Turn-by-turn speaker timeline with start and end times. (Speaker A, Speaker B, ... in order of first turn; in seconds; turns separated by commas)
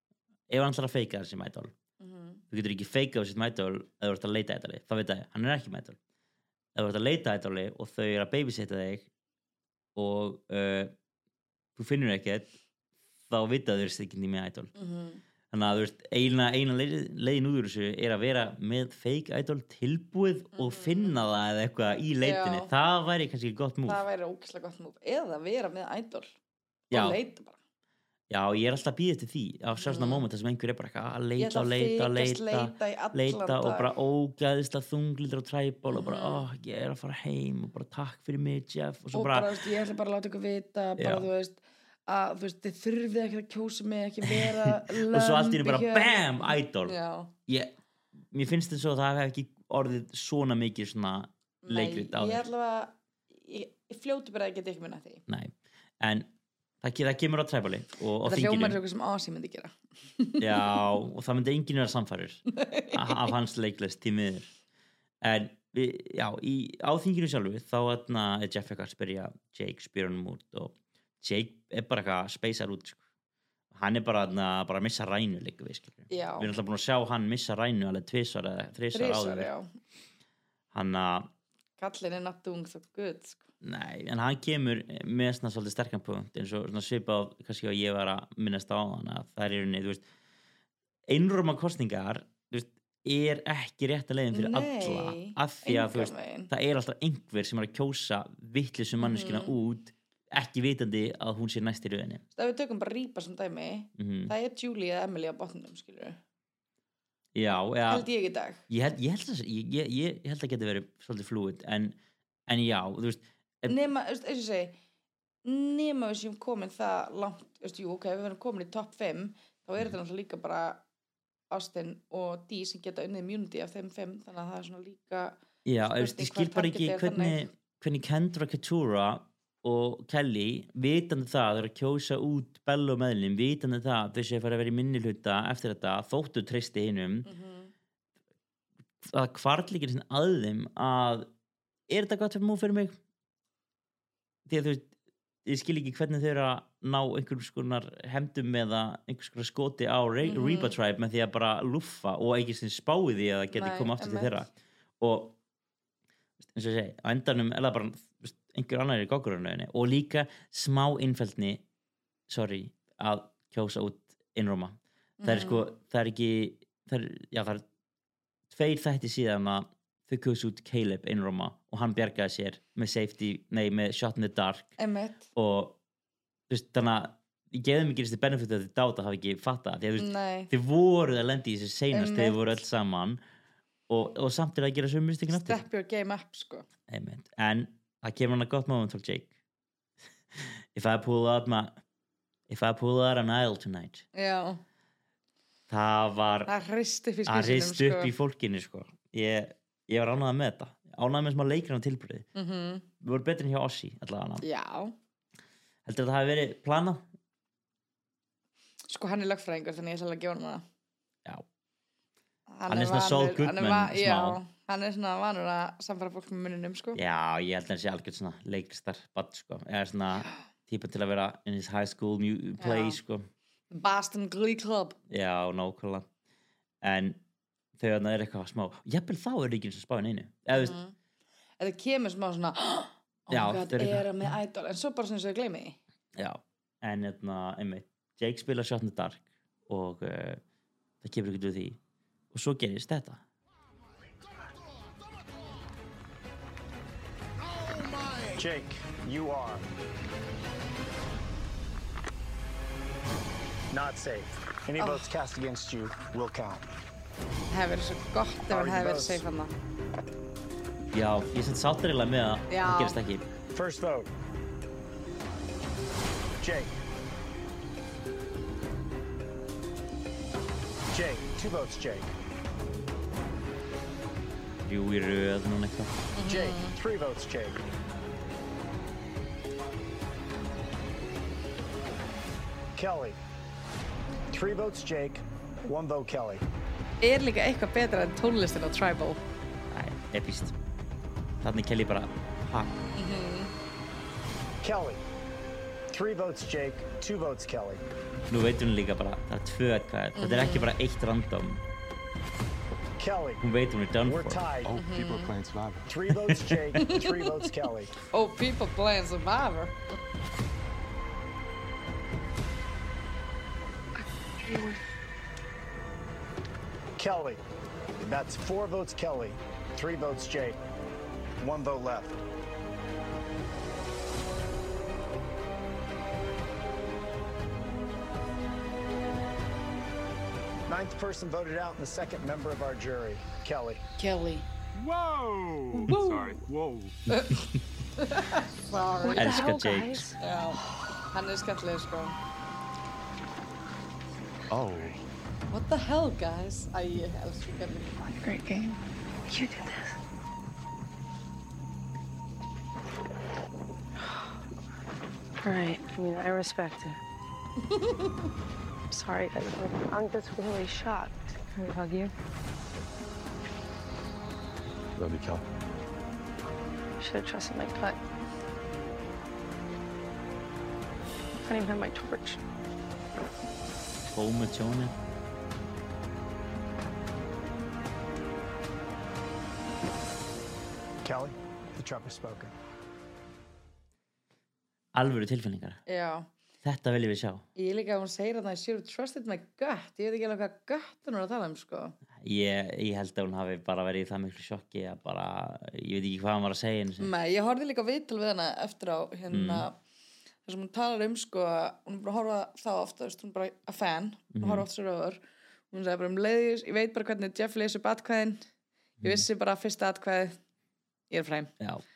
Speaker A: 0.5-1.7, Speaker B: 2.0-2.4, Speaker A: 2.5-6.0, Speaker A: 6.8-9.1, Speaker A: 10.0-10.9, Speaker A: 11.8-12.5, Speaker A: 13.3-14.7, Speaker B: 14.8-15.2, Speaker A: 15.5-24.0, Speaker B: 20.6-21.2, Speaker B: 22.2-22.7, Speaker B: 23.9-26.3, Speaker A: 26.9-27.2, Speaker B: 26.9-27.6, Speaker A: 28.3-39.5, Speaker B: 29.8-30.2, Speaker B: 31.4-33.9, Speaker B: 35.9-36.5, Speaker B: 39.1-47.3, Speaker A: 41.0-41.3, Speaker A: 44.3-47.0, Speaker A: 47.5-47.7, Speaker A: 48.3-52.4, Speaker B: 51.6-55.2, Speaker A: 55.3-56.3, Speaker A: 56.8-58.8, Speaker B: 58.2-60.8, Speaker A: 60.4-64.5, Speaker B: 62.6-63.3, Speaker A: 65.2-73.0, Speaker A: 73.7-79.5, Speaker B: 76.1-76.5, Speaker B: 78.9-79.7, Speaker A: 80.7-81.3, Speaker B: 81.8-83.5, Speaker A: 83.6-90.0, Speaker A: 91.1-102.2, Speaker B: 94.3-96.5, Speaker B: 99.0-99.5, Speaker B: 102.4-106.2, Speaker A: 104.0-104.3, Speaker A: 107.3-108.1, Speaker B: 107.9-108.6, Speaker A: 108.7-112.0, Speaker A: 112.5-113.8, Speaker B: 113.7-114.8, Speaker B: 115.5-120.8, Speaker B: 121.5-127.5, Speaker A: 125.7-137.3, Speaker B: 137.3-137.7, Speaker A: 139.0-141.3, Speaker A: 141.9-143.0, Speaker A: 144.5-144.9, Speaker A: 145.4-155.4, Speaker B: 150.2-150.8, Speaker B: 153.5-154.4, Speaker A: 156.4-161.6, Speaker A: 162.3-167.6, Speaker B: 165.2-165.7, Speaker A: 168.5-174.7, Speaker B: 174.8-175.2, Speaker A: 175.3-175.8, Speaker A: 176.5-183.2, Speaker B: 180.0-180.5, Speaker B: 181.9-182.4, Speaker A: 183.9-185.6, Speaker B: 185.3-186.7, Speaker A: 186.9-189.3, Speaker A: 190.4-191.8, Speaker A: 192.5-194.1, Speaker B: 194.1-194.6, Speaker A: 195.7-196.5, Speaker B: 196.5-198.1, Speaker A: 197.3-202.3, Speaker B: 202.3-202.9, Speaker A: 203.0-204.4, Speaker B: 204.4-204.9, Speaker A: 205.9-207.0, Speaker B: 208.9-210.6, Speaker B: 212.5-217.0, Speaker A: 212.7-214.4, Speaker A: 216.9-223.3, Speaker B: 222.6-223.0, Speaker B: 223.7-225.0, Speaker A: 225.1-226.1, Speaker A: 226.8-227.2, Speaker A: 227.8-230.8, Speaker B: 230.5-230.9, Speaker B: 231.6-235.8, Speaker A: 233.3-234.3, Speaker A: 236.2-240.4, Speaker A: 241.0-241.8, Speaker A: 242.3-243.2, Speaker C: 248.4-249.6, Speaker C: 253.7-256.6, Speaker B: 254.8-255.1, Speaker B: 257.5-259.5, Speaker C: 258.5-259.2, Speaker A: 260.9-263.2, Speaker B: 262.5-263.0, Speaker C: 263.5-264.1, Speaker C: 266.4-266.7, Speaker C: 270.9-272.1, Speaker A: 274.6-276.0, Speaker B: 276.1-276.8, Speaker C: 276.2-277.6, Speaker C: 282.8-283.2, Speaker C: 284.3-286.4, Speaker B: 287.0-289.2, Speaker A: 289.7-290.6, Speaker A: 291.4-292.7, Speaker B: 292.9-293.5, Speaker C: 294.6-295.0, Speaker C: 295.9-297.8, Speaker A: 298.3-301.6, Speaker B: 300.2-300.7, Speaker C: 303.0-303.4, Speaker A: 303.4-304.5, Speaker C: 304.0-304.8, Speaker D: 304.7-305.8, Speaker B: 304.8-305.4, Speaker C: 305.9-307.9, Speaker B: 306.8-307.4, Speaker B: 308.0-309.8, Speaker E: 314.5-314.8, Speaker C: 317.0-317.4, Speaker C: 318.0-320.6, Speaker C: 321.4-322.2, Speaker C: 330.7-333.8, Speaker B: 334.0-334.5, Speaker D: 334.8-336.9, Speaker B: 335.7-336.4, Speaker B: 337.1-339.6, Speaker F: 339.1-340.0, Speaker E: 339.1-340.1, Speaker A: 339.1-340.1, Speaker B: 340.2-342.2, Speaker D: 344.5-345.0, Speaker B: 345.5-348.0, Speaker F: 348.1-350.0, Speaker E: 355.4-357.0, Speaker E: 359.0-362.1, Speaker E: 367.0-368.0, Speaker E: 371.5-372.4, Speaker A: 374.1-374.9, Speaker C: 381.0-382.5, Speaker A: 384.9-385.8, Speaker B: 385.9-386.3, Speaker A: 386.6-387.4, Speaker B: 387.6-392.0, Speaker A: 392.2-397.1, Speaker B: 397.0-399.8, Speaker A: 399.3-399.7, Speaker B: 400.4-408.4, Speaker A: 404.3-404.6, Speaker B: 409.0-410.4, Speaker B: 411.1-411.5